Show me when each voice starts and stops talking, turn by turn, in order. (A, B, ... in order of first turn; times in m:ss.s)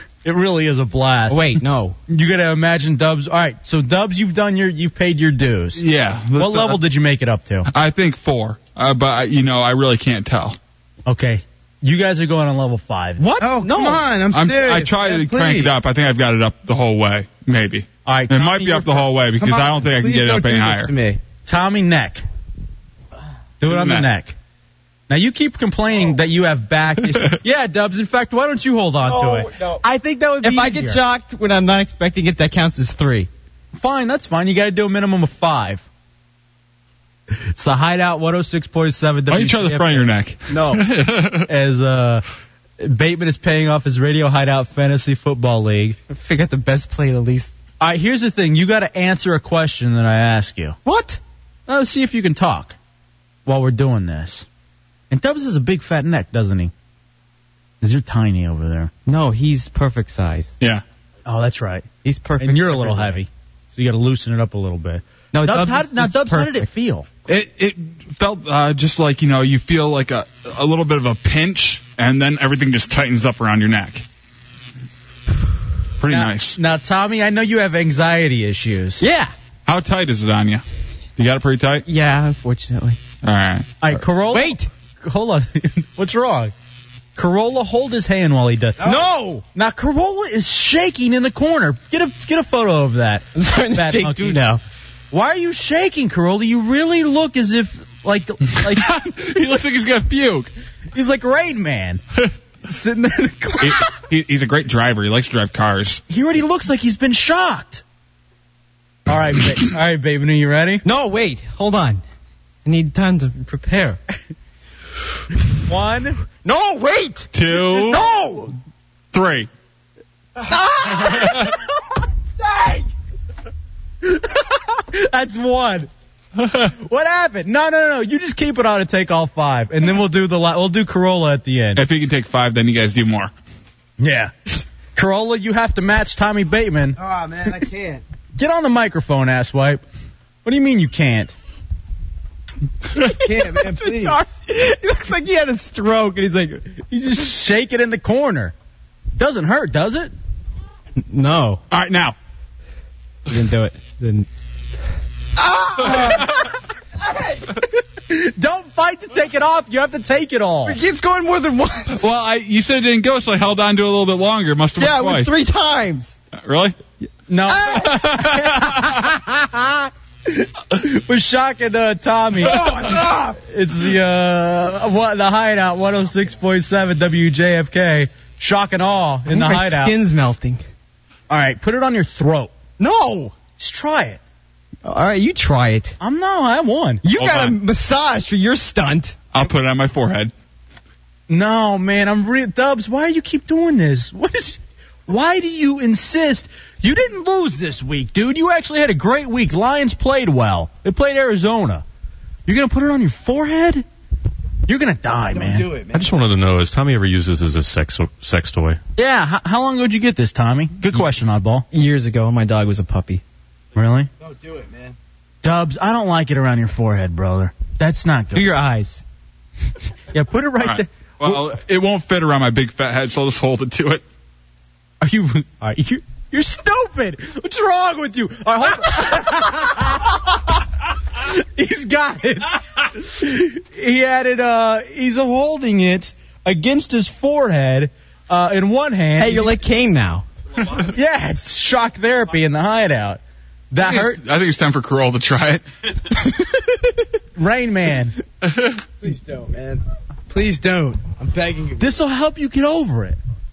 0:00.2-0:01.6 A
0:01.3-0:02.0 B
0:02.1-0:05.8 A
0:05.8-0:06.8 C
0:06.4-0:07.7 A
0:07.7-0:10.6 C
0:11.1-0:13.2 A
0:13.2-0:14.1 B
0:13.4-0:15.7 D
0:14.3-0:20.9 C
0:18.1-0:19.1 A
0:19.4-0:21.2 D
0:21.5-0:22.2 A
0:23.6-0:24.4 A
0:23.7-0:24.1 C
0:25.1-0:31.0 A
0:29.0-0:29.8 B
0:30.4-0:33.3 B
0:33.8-0:35.9 A
0:37.5-0:40.1 A
0:39.3-0:41.5 C
0:40.5-0:40.8 B
0:41.5-0:42.2 A
0:42.8-0:46.0 A
0:46.1-0:47.5 B
0:47.8-0:50.8 A
0:50.8-0:51.2 B
0:51.7-0:52.8 A
0:53.5-0:54.5 A
0:55.1-0:56.7 A
0:57.8-0:58.9 A
0:59.1-1:00.5 B
1:01.3-1:01.9 A
1:02.0-1:03.2 B
1:02.4-1:07.1 A
1:05.3-1:06.7 B
1:07.3-1:14.0 C
1:16.0-1:16.6 C
1:16.1-1:19.0 A
1:19.0-1:19.3 B
1:19.7-1:20.6 C
1:21.2-1:21.9 C
1:21.8-1:23.0 B
1:23.2-1:23.7 C
1:23.8-1:26.5 A
1:24.1-1:24.7 B
1:27.2-1:34.6 A
1:28.8-1:29.1 D
1:28.8-1:29.4 B
1:33.4-1:34.6 B
1:35.1-1:39.0 A
1:38.6-1:40.5 C
1:40.9-1:42.0 A
1:42.7-1:43.9 A
1:43.6-1:46.0 C
1:46.1-1:47.8 A
1:49.1-1:50.8 A
1:50.8-1:52.0 B
1:52.6-1:54.0 B
1:55.7-1:56.2 A
1:56.4-1:58.5 B
1:57.3-1:58.0 C
1:57.7-1:58.5 A
1:59.1-1:59.5 C
2:00.7-2:01.3 B
2:01.2-2:01.5 C
2:04.0-2:05.9 A
2:06.5-2:11.8 A
2:11.8-2:13.3 C
2:14.0-2:17.0 A
2:17.0-2:18.0 D
2:18.4-2:19.8 A
2:20.4-2:21.4 A
2:23.0-2:26.8 B
2:23.1-2:24.2 D
2:26.9-2:28.5 A
2:29.2-2:30.1 A
2:31.0-2:31.6 B
2:31.7-2:32.2 C
2:33.3-2:34.3 B
2:35.6-2:36.3 D
2:38.1-2:40.8 A
2:40.7-2:42.0 B
2:42.0-2:45.3 C
2:44.8-2:46.2 B
2:46.4-2:46.8 C
2:47.3-3:00.0 A
2:47.6-2:49.1 C
2:52.5-2:53.3 D
2:59.3-3:00.6 B
3:01.3-3:02.5 A
3:02.8-3:03.3 B
3:03.6-3:04.2 A
3:04.8-3:06.0 B
3:06.0-3:07.0 A
3:07.0-3:09.2 B
3:07.2-3:07.6 C
3:09.3-3:10.3 C
3:11.3-3:21.8 A
3:22.5-3:23.8 A
3:24.7-3:25.7 A
3:25.3-3:26.1 D
3:25.9-3:28.8 E
3:29.0-3:31.7 A
3:31.7-3:33.2 B
3:33.8-3:34.1 A
3:34.2-3:35.0 D
3:35.4-3:38.5 A
3:38.3-3:39.0 B
3:40.1-3:41.5 A
3:40.6-3:44.0 C
3:45.0-3:50.5 A
3:51.2-3:59.6 A
3:59.2-4:00.2 B
4:00.8-4:04.2 A
4:03.8-4:05.6 C
4:07.4-4:08.2 A
4:08.4-4:08.8 C
4:09.0-4:12.0 D
4:11.8-4:13.2 A